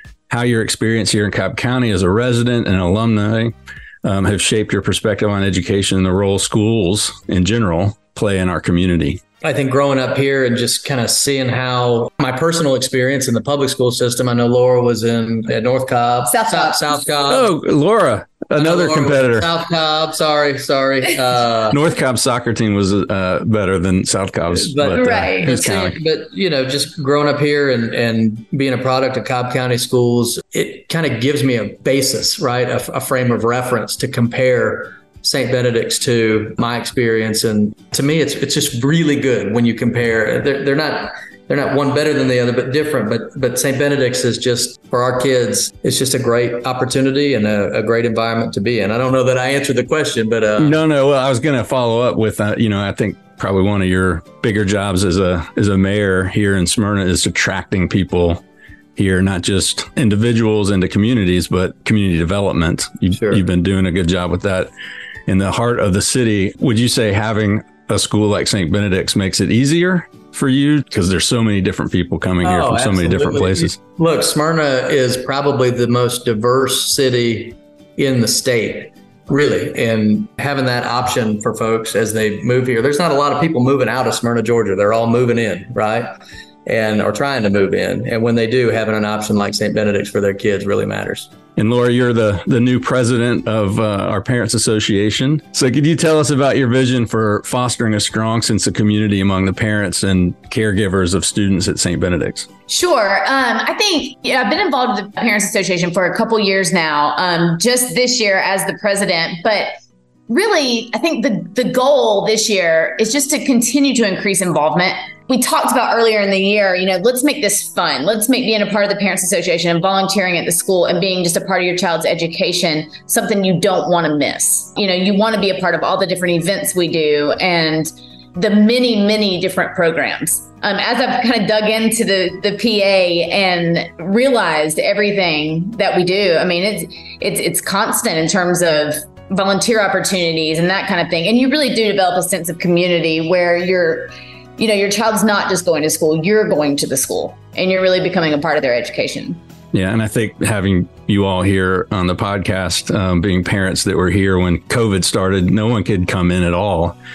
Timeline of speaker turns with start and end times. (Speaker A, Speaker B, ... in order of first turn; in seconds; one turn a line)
Speaker A: 0.3-9.2
Speaker B: 9.4-17.5
Speaker C: 16.3-17.0
Speaker A: 17.3-19.5
Speaker B: 18.6-21.8
Speaker A: 21.7-26.0
Speaker B: 24.5-50.8
Speaker C: 24.9-25.6
Speaker A: 50.6-58.4
Speaker A: 59.0-64.7
Speaker B: 63.1-63.4
Speaker A: 65.3-73.8
Speaker B: 72.4-86.1
Speaker B: 86.7-91.3
Speaker A: 91.6-102.5
Speaker C: 102.7-109.7
Speaker C: 110.3-149.4
Speaker A: 149.7-157.0